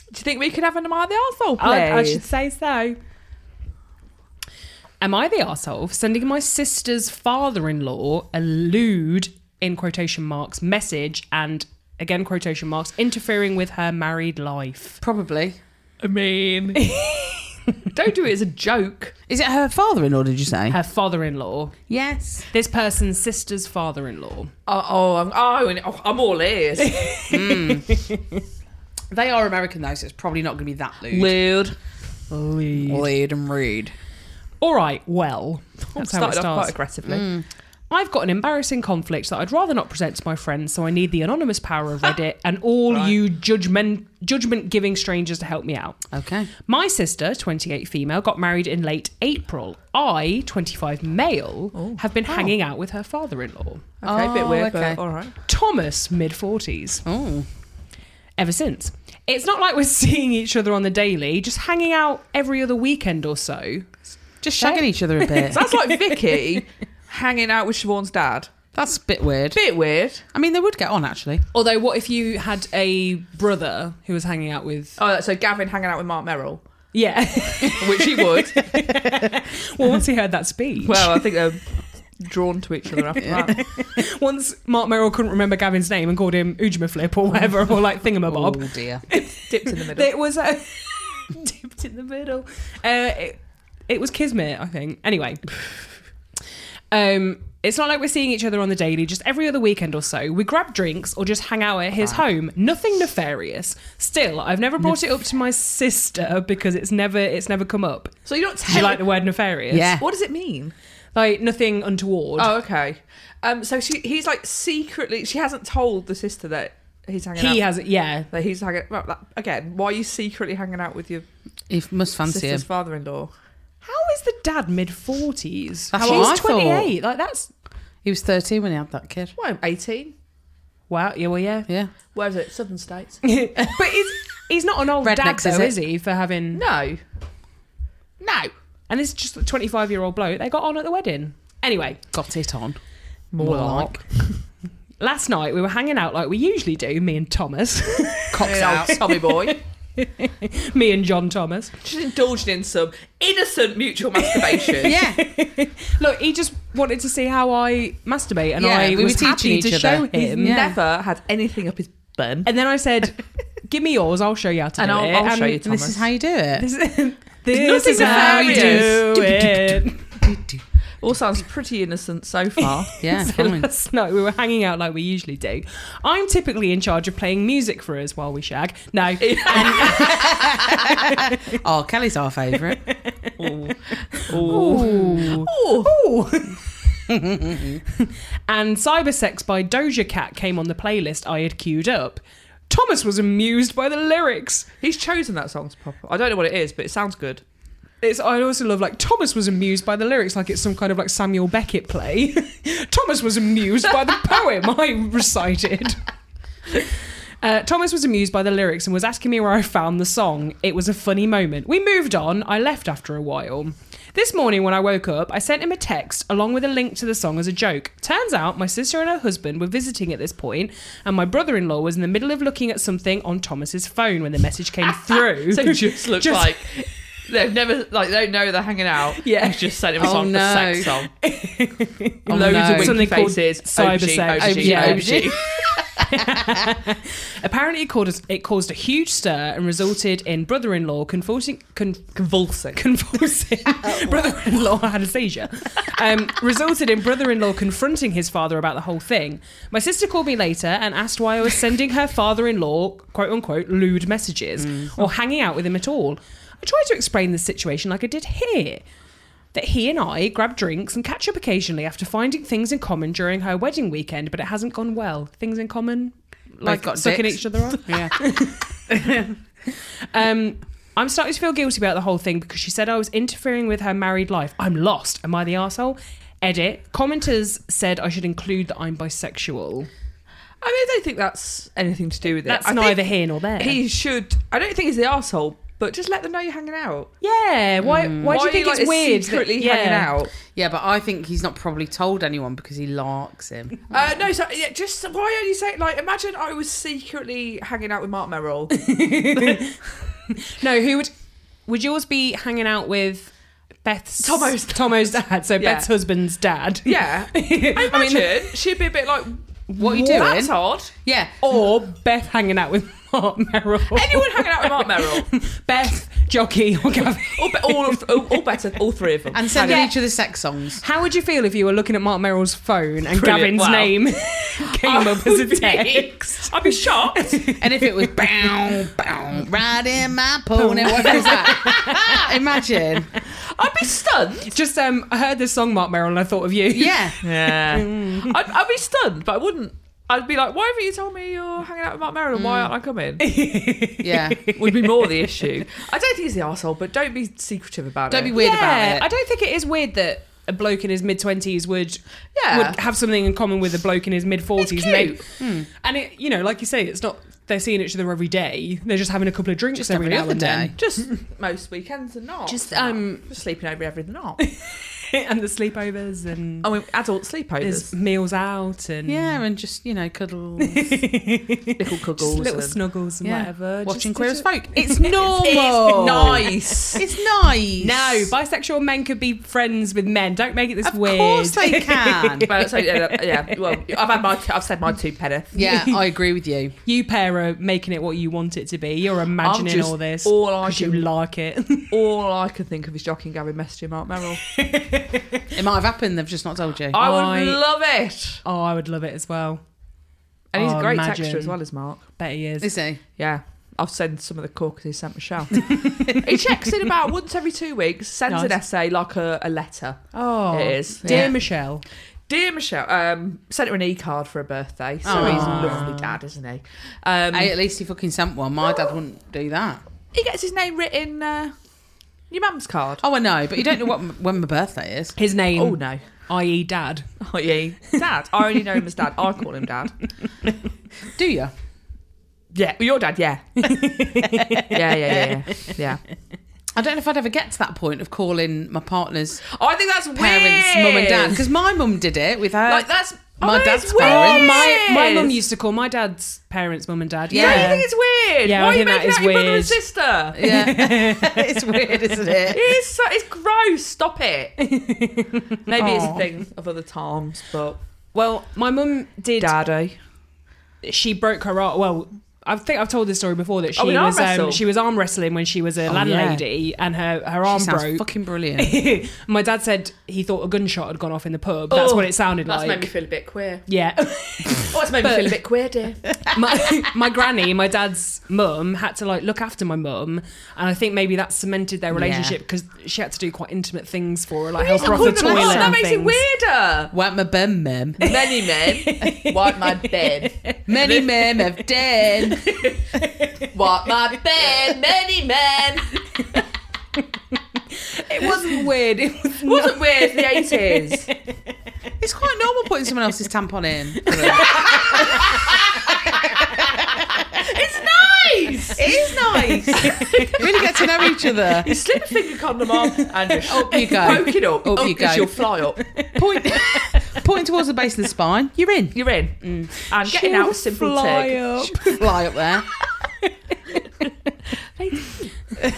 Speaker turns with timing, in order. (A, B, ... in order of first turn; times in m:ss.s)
0:00.1-0:02.3 A
0:01.6-0:03.0 B
0:05.0-0:15.0 B
0:15.0-0:15.6 C
0:16.0-0:17.0 A
0:16.8-0:17.7 B
0:17.9-0:19.2 A
0:19.3-0:20.8 C
0:20.7-0:21.8 B
0:21.9-0:22.5 C
0:22.5-0:24.5 B
0:24.7-0:27.3 A
0:26.8-0:28.4 B
0:27.3-0:27.9 C
0:29.1-0:31.3 C
0:31.1-0:31.8 A
0:32.3-0:33.0 B
0:32.8-0:34.0 C
0:34.6-0:36.7 B
0:35.9-0:37.3 A
0:37.1-0:37.4 C
0:37.9-0:46.0 B
0:42.9-0:43.2 A
0:46.1-0:46.5 C
0:46.6-0:53.9 B
0:51.7-0:52.5 A
0:54.0-0:55.4 A
0:54.0-0:55.0 C
0:55.5-0:57.0 B
0:57.0-0:57.5 C
0:58.4-1:03.9 B
1:04.4-1:05.7 C
1:04.6-1:06.4 B
1:05.4-1:08.5 A
1:08.7-1:09.6 C
1:09.5-1:10.2 A
1:10.3-1:11.4 C
1:11.5-1:15.0 B
1:15.0-1:16.6 A
1:16.9-1:21.2 B
1:17.6-1:18.7 A
1:20.8-1:21.6 A
1:22.2-1:23.6 A
1:23.5-1:35.6 B
1:28.3-1:29.0 C
1:29.1-1:30.1 A
1:36.9-1:48.1 B
1:48.3-1:49.0 A
1:48.6-1:50.0 B
1:49.7-1:50.0 C
1:50.0-1:50.7 A
1:51.1-1:52.5 B
1:52.4-1:57.6 A
1:57.4-1:58.3 B
1:58.3-2:01.3 A
2:01.7-2:02.6 C
2:02.3-2:03.3 A
2:03.8-2:07.5 B
2:05.9-2:06.9 C
2:06.0-2:06.4 A
2:08.0-2:09.3 C
2:09.4-2:10.1 A
2:10.9-2:11.7 B
2:12.1-2:13.2 A
2:13.2-2:16.7 B
2:15.0-2:15.8 C
2:16.5-2:17.0 A
2:18.2-2:18.5 A
2:18.9-2:22.0 B
2:22.1-2:22.8 C
2:23.3-2:24.4 A
2:23.4-2:24.0 C
2:25.0-2:31.7 B
2:28.3-2:29.6 A
2:28.4-2:29.0 C
2:31.8-2:35.0 A
2:34.2-2:40.6 B
2:34.8-2:35.2 C
2:38.6-2:40.8 C
2:40.4-2:42.5 A
2:42.4-2:45.6 B
2:44.8-2:46.0 A
2:45.6-2:46.7 C
2:46.6-2:50.0 B
2:47.5-2:49.0 A
2:47.8-2:50.6 C
2:51.0-2:52.9 A
2:52.6-3:01.4 B
2:53.0-2:53.7 C
2:59.2-3:00.8 A
2:59.5-3:02.8 C
3:02.8-3:03.5 B
3:03.4-3:05.9 A
3:04.2-3:14.7 B
3:07.1-3:07.8 C
3:14.8-3:17.4 A
3:18.0-3:26.0 B
3:27.4-3:46.5 B
3:44.9-3:51.1 A
3:49.2-3:49.6 B
3:50.0-3:51.0 C
3:51.2-4:02.1 B
3:52.3-3:53.1 C
3:52.3-3:55.4 A
3:54.4-3:56.7 C
4:02.2-4:02.8 A
4:02.7-4:18.8 B
4:03.9-4:04.3 C
4:14.6-4:14.9 C
4:19.5-4:29.2 B
4:26.6-4:28.3 C
4:28.9-4:29.3 C
4:30.1-4:39.9 B
4:40.6-4:47.1 A
4:42.4-4:43.8 B
4:47.2-4:50.1 B
4:47.8-4:48.4 C
4:48.3-4:50.3 A
4:50.5-4:54.0 C
4:53.9-4:58.8 A
4:58.7-4:59.8 B
5:00.3-5:01.1 B
5:01.7-5:03.3 B
5:03.8-5:08.5 B
5:04.2-5:05.9 A
5:06.8-5:10.9 A
5:09.8-5:10.3 B
5:09.8-5:11.4 C
5:11.4-5:18.2 B
5:13.9-5:15.3 A
5:17.1-5:19.9 A
5:19.3-5:20.8 C
5:19.6-5:19.9 B
5:20.8-5:28.1 B
5:23.1-5:27.4 A
5:27.6-5:33.1 C
5:30.6-5:32.6 B
5:33.3-5:34.5 A
5:34.5-5:38.4 B
5:36.7-5:37.2 C
5:37.2-5:43.2 A
5:42.3-5:42.7 C
5:43.2-5:45.3 B
5:44.0-5:44.4 C
5:44.5-5:48.4 A
5:48.1-5:49.1 C
5:48.4-6:00.9 B
5:52.4-5:52.8 A
5:54.6-5:55.2 A
5:55.4-5:55.7 C
5:59.7-6:00.7 C
6:00.8-6:04.4 A
6:02.5-6:03.2 B
6:04.4-6:06.7 B
6:06.6-6:07.9 A
6:07.6-6:09.4 B
6:09.1-6:11.0 C
6:10.6-6:15.8 B
6:11.8-6:12.8 A
6:13.2-6:18.3 C
6:15.4-6:17.0 A
6:16.7-6:17.0 B
6:17.8-6:23.5 B
6:20.8-6:22.5 C
6:22.5-6:25.6 A
6:25.5-6:26.8 C
6:25.6-6:25.9 B
6:26.8-6:32.0 B
6:29.4-6:31.1 A
6:31.9-6:34.4 A
6:34.5-6:35.4 B
6:35.5-6:37.0 C
6:36.9-6:38.4 A
6:37.0-6:37.6 B
6:38.4-6:39.6 B
6:40.5-6:42.0 A
6:40.6-6:41.6 B
6:42.2-6:42.7 B
6:42.6-6:43.0 C
6:43.2-6:51.4 A
6:48.3-6:48.6 B
6:50.1-6:51.8 B
6:51.0-6:51.3 C
6:52.3-6:57.5 A
6:55.0-6:56.0 C
6:55.1-6:56.1 B
6:57.3-6:59.8 C
7:00.1-7:01.5 A
7:02.3-7:03.0 A
7:03.0-7:05.2 C
7:05.2-7:07.1 B
7:05.6-7:06.0 A
7:07.2-7:10.0 A
7:11.1-7:11.5 C
7:12.5-7:13.9 A
7:13.6-7:15.7 B
7:14.7-7:16.0 A
7:16.7-7:19.4 C
7:19.5-7:21.5 A
7:20.2-7:22.9 C
7:22.7-7:25.4 A
7:23.4-7:24.7 C
7:24.0-7:27.9 B
7:27.3-7:27.8 C
7:27.3-7:30.4 A
7:28.4-7:29.8 B
7:30.3-7:32.8 C
7:30.4-7:32.3 B
7:32.5-7:34.6 A
7:34.6-7:35.9 B
7:35.7-7:37.8 A
7:35.8-7:36.3 C
7:38.1-7:39.6 B
7:39.4-7:40.0 A
7:40.8-7:48.1 B
7:43.8-7:44.6 A
7:45.9-7:46.4 C
7:47.5-7:48.8 C
7:48.6-7:52.9 B
7:51.7-7:53.6 A
7:53.7-7:55.4 B
7:54.5-7:56.2 A
7:56.2-8:06.2 B
8:01.9-8:02.4 C
8:04.6-8:06.9 A
8:04.8-8:05.8 C
8:06.9-8:08.2 C
8:08.0-8:11.2 A
8:08.0-8:10.6 B
8:10.7-8:12.5 C
8:12.3-8:13.5 B
8:13.4-8:16.4 A
8:17.0-8:21.4 B
8:18.2-8:18.6 A
8:19.4-8:21.1 A
8:22.0-8:26.7 C
8:24.0-8:26.6 B
8:24.2-8:25.6 A
8:27.0-8:30.6 A
8:28.8-8:31.7 C
8:29.3-8:31.0 B
8:31.5-8:35.8 A
8:31.7-8:31.9 B
8:32.9-8:34.3 B
8:33.4-8:35.4 C
8:35.8-8:37.2 B
8:36.2-8:39.7 C
8:38.9-8:41.5 A
8:40.0-8:42.2 B
8:41.3-8:42.7 C
8:43.0-8:44.3 B
8:44.8-8:45.3 A